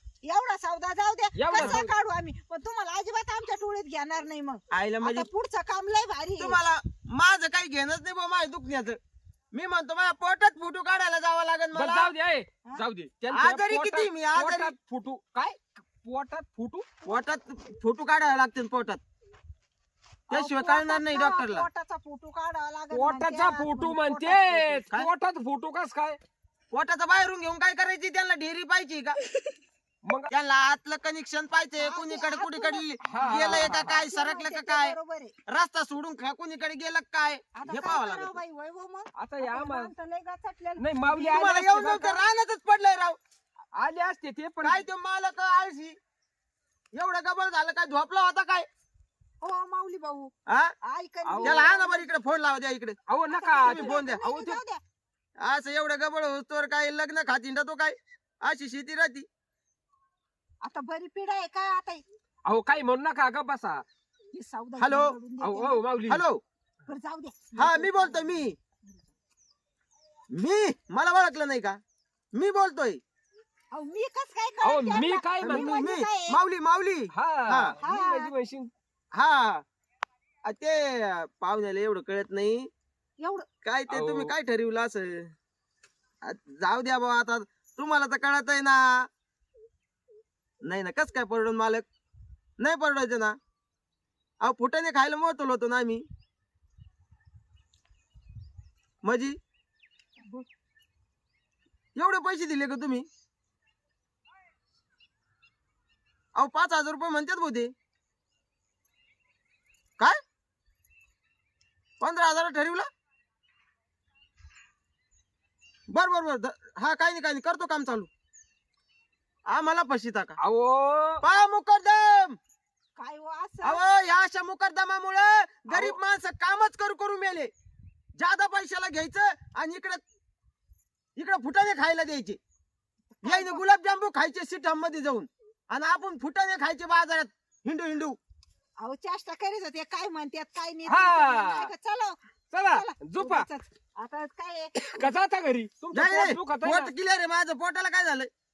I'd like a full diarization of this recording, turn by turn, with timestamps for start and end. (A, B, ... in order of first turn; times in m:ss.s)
0:00.2-0:06.6 A
0:01.4-0:01.9 B
0:01.6-0:01.8 C
0:04.7-0:05.3 C
0:06.4-0:09.0 C
0:09.5-0:12.1 C
0:11.7-0:16.8 B
0:13.3-0:14.7 C
0:17.0-0:19.0 C
0:20.3-0:21.7 C
0:20.3-0:24.8 A
0:22.9-0:26.2 B
0:26.7-0:29.2 C
0:30.0-0:30.3 B
0:30.3-0:38.4 C
0:31.8-0:35.3 A
0:33.1-0:34.0 B
0:37.6-0:41.4 A
0:39.2-0:39.9 B
0:40.8-0:42.2 B
0:41.2-0:43.2 C
0:43.8-0:44.8 B
0:44.6-0:46.0 C
0:46.9-0:48.7 C
0:49.4-0:52.1 A
0:50.5-0:50.7 C
0:51.2-0:51.7 B
0:51.4-0:53.0 C
0:53.1-0:54.6 B
0:53.3-0:54.8 A
0:53.6-0:54.2 C
0:55.4-0:59.3 C
1:00.6-1:02.0 A
1:02.4-1:03.8 B
1:04.3-1:05.8 A
1:04.8-1:05.1 C
1:05.4-1:06.2 B
1:06.0-1:06.4 C
1:06.9-1:09.1 A
1:07.6-1:08.6 C
1:10.3-1:11.8 C
1:12.3-1:13.0 C
1:13.7-1:16.4 A
1:14.6-1:15.8 B
1:15.4-1:17.7 C
1:17.1-1:18.7 B
1:17.8-1:18.3 A
1:19.1-1:19.6 C
1:20.4-1:22.7 C
1:23.2-1:23.5 A
1:23.6-1:25.3 C
1:23.9-1:24.3 B
1:26.2-1:29.1 C
1:30.6-1:31.8 C
1:32.6-1:33.4 C
1:34.4-1:36.0 C
1:39.0-1:39.4 C
1:42.0-1:43.0 C
1:46.4-1:47.7 C
1:52.0-1:52.9 C
1:55.9-1:58.1 C
1:59.5-2:00.4 C
2:00.4-2:01.2 B
2:01.2-2:02.4 C
2:03.0-2:03.8 A
2:03.6-2:07.5 C
2:05.7-2:06.0 B
2:08.2-2:10.0 C
2:11.2-2:12.4 C
2:13.1-2:13.6 A
2:13.2-2:18.2 C
2:18.8-2:24.7 A
2:20.9-2:21.7 B
2:22.5-2:23.4 B
2:24.9-2:26.9 B
2:25.9-2:28.3 C